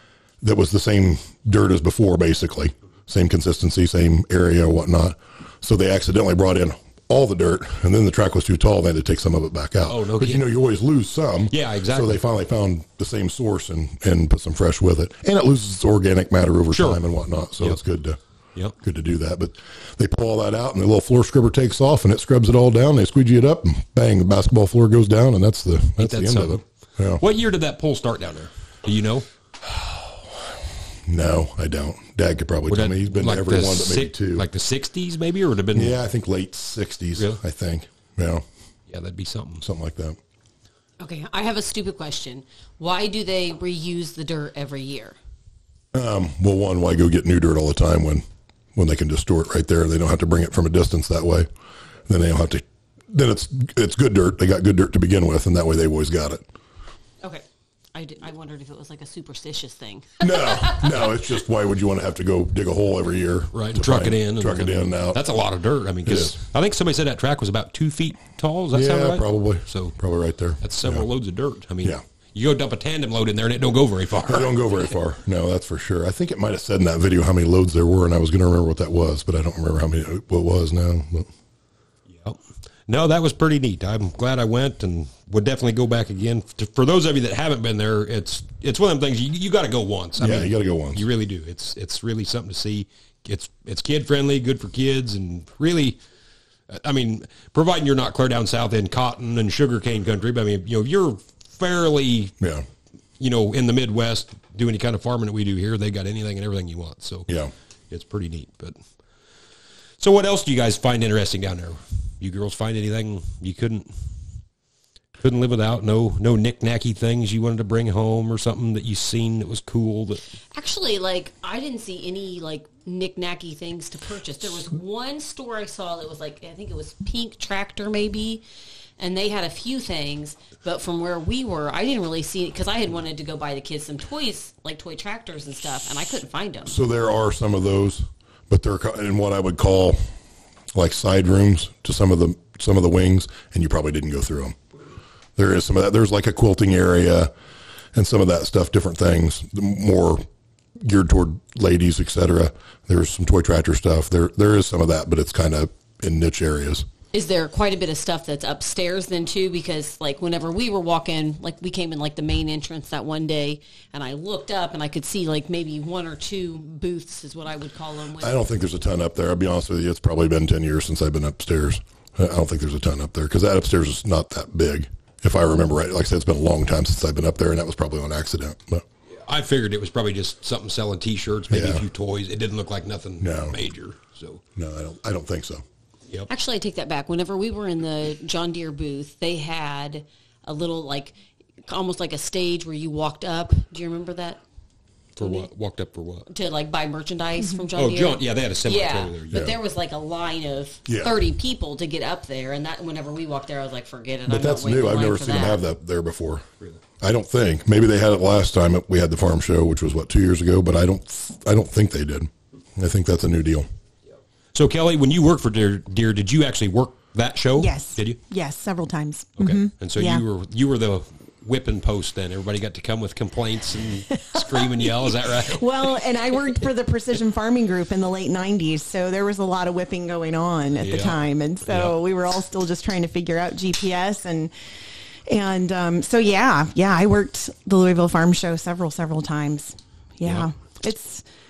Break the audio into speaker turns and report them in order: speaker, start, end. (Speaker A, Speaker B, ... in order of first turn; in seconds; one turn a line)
Speaker A: 0.4-18.2
Speaker B: 9.9-10.5
Speaker B: 11.5-12.2
Speaker B: 16.7-17.0
Speaker A: 18.8-27.2
Speaker B: 26.0-26.6
Speaker B: 27.2-29.2
Speaker A: 29.7-30.2
Speaker A: 31.1-34.5
Speaker B: 32.7-36.0
Speaker A: 35.7-38.4
Speaker B: 38.9-39.6
Speaker A: 39.6-40.2
Speaker C: 41.0-45.1
Speaker A: 45.9-48.2
Speaker A: 48.7-51.5
Speaker A: 52.1-56.4
Speaker C: 57.2-61.0
Speaker A: 60.2-65.2
Speaker B: 63.5-70.0
Speaker A: 66.0-66.3
Speaker A: 68.7-71.0
Speaker B: 70.6-74.5
Speaker A: 74.2-81.3
Speaker B: 82.1-96.0
Speaker A: 90.2-91.0
Speaker B: 96.7-102.3
Speaker A: 102.4-102.6
Speaker B: 103.2-107.3
Speaker B: 107.9-108.8
Speaker B: 110.0-113.9
Speaker B: 115.2-120.2
Speaker C: 120.5-128.4
Speaker C: 129.0-136.8
Speaker A: 136.7-140.0
Speaker A: 140.7-144.6
Speaker A: 145.3-147.3
Speaker A: 147.9-150.2
Speaker A: 150.8-156.8
Speaker C: 157.1-168.4
Speaker A: 168.2-178.8
Speaker B: 179.2-184.4
Speaker A: 181.5-181.8
Speaker A: 183.2-183.6
Speaker A: 184.6-185.6
Speaker C: 186.3-191.1
Speaker C: 191.7-194.4
Speaker B: 195.2-196.2
Speaker C: 195.2-195.5
Speaker C: 196.3-205.6
Speaker B: 197.8-199.6
Speaker A: 200.9-201.2
Speaker A: 204.3-206.4
Speaker A: 207.0-213.7
Speaker B: 214.5-218.2
Speaker D: 217.6-220.2
Speaker B: 219.4-226.0
Speaker D: 224.3-234.5
Speaker B: 230.8-231.9
Speaker D: 235.3-241.2